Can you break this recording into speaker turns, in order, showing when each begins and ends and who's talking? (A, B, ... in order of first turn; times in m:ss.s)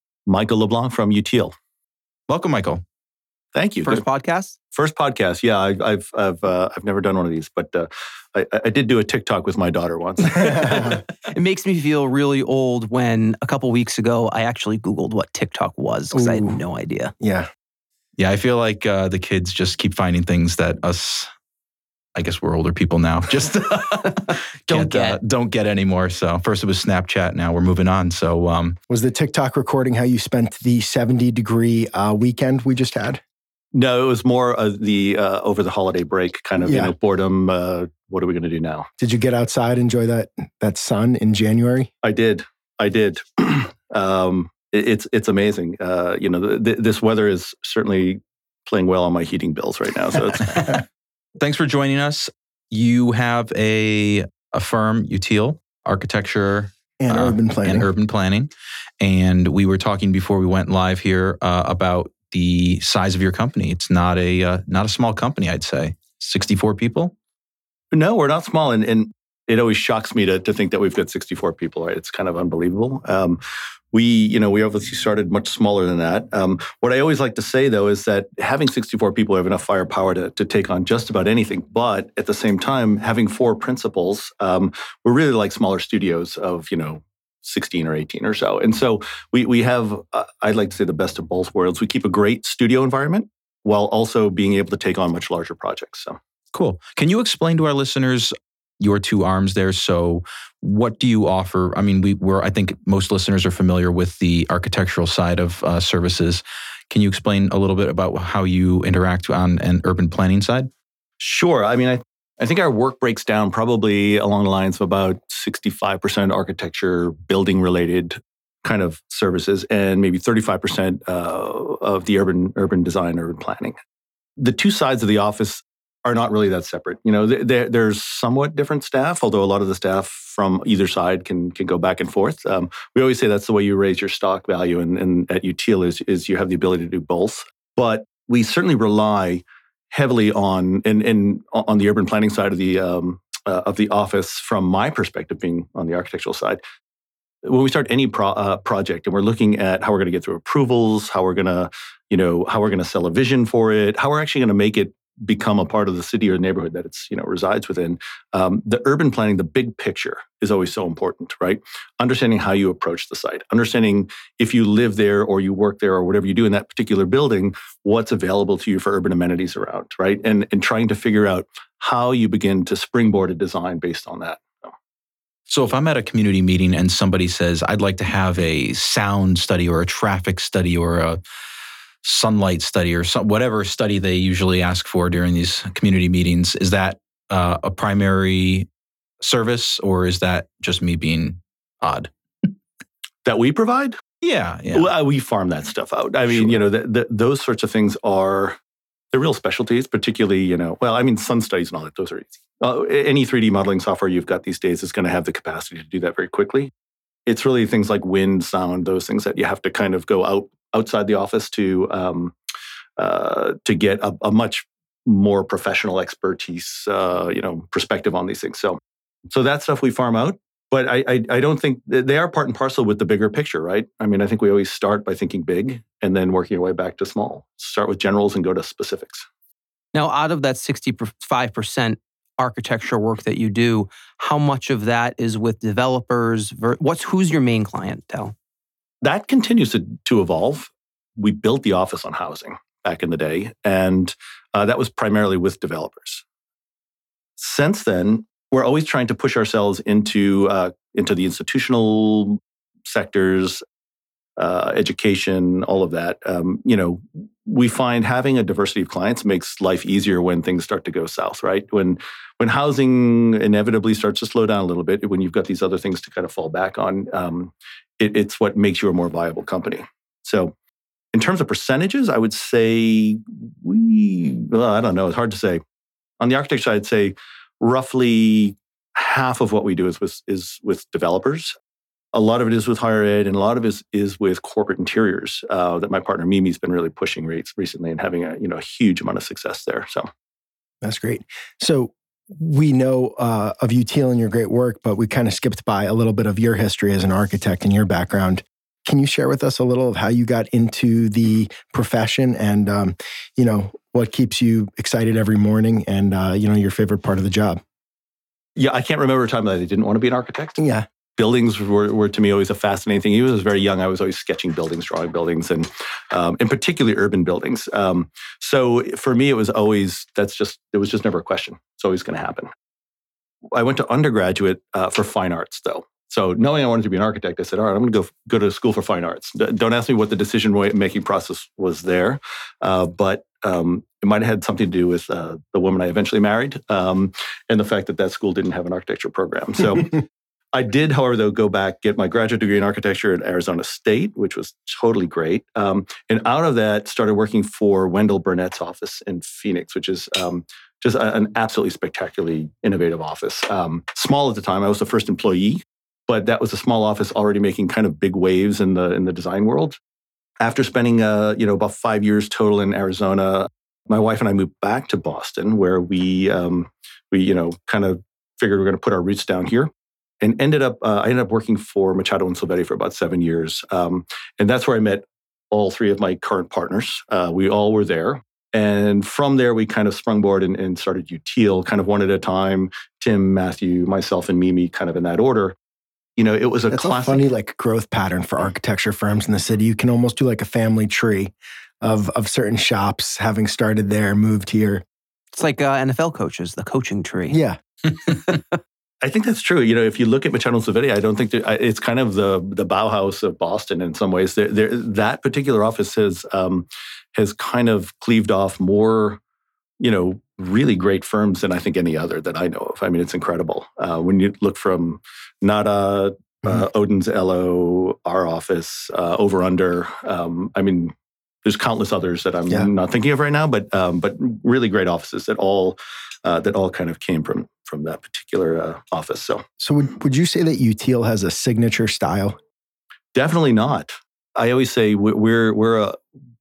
0:00.3-0:01.5 A
0:02.3-0:02.8 B
0:03.5-0:04.0 A
0:03.8-0:04.6 C
0:04.7-0:11.0 A
0:10.4-0:11.0 D
0:10.6-0:17.1 C
0:16.1-0:16.6 D
0:17.2-0:17.5 D
0:18.2-0:21.3 B
0:22.2-0:28.8 B
0:24.3-0:25.2 C
0:28.9-0:33.2 D
0:33.7-0:38.9 A
0:36.6-0:36.9 D
0:39.0-0:41.9 D
0:42.0-0:50.8 A
0:50.4-0:50.8 B
0:51.4-0:58.5 B
0:57.0-0:57.9 D
0:59.0-1:07.1 B
1:07.9-1:13.4 A
1:13.9-1:36.2 A
1:36.5-1:50.7 B
1:51.2-2:03.8 A
2:04.4-2:26.6 A
2:27.4-2:54.7 A
2:55.5-3:01.2 B
3:02.0-3:08.7 B
3:09.2-3:12.5 B
3:13.2-3:14.0 A
3:14.2-3:14.9 B
3:14.7-3:18.6 A
3:16.3-3:16.6 B
3:19.1-3:26.7 A
3:27.3-3:32.3 A
3:33.0-3:49.3 A
3:49.9-3:58.4 C
3:59.0-4:06.2 A
4:07.4-4:13.6 A
4:14.4-4:30.5 A
4:31.1-4:35.6 A
4:36.2-4:41.6 A
4:42.1-4:50.1 A
4:50.8-5:07.6 D
5:08.6-5:10.6 A
5:10.6-5:10.9 D
5:11.2-5:22.5 A
5:23.5-5:59.8 A
6:00.4-6:25.6 A
6:26.2-6:27.2 A
6:26.7-6:34.8 D
6:35.3-6:37.4 C
6:37.3-6:37.6 D
6:38.0-6:38.6 C
6:39.0-6:49.2 A
6:49.8-7:09.4 A
7:09.6-7:12.4 D
7:13.1-7:16.0 A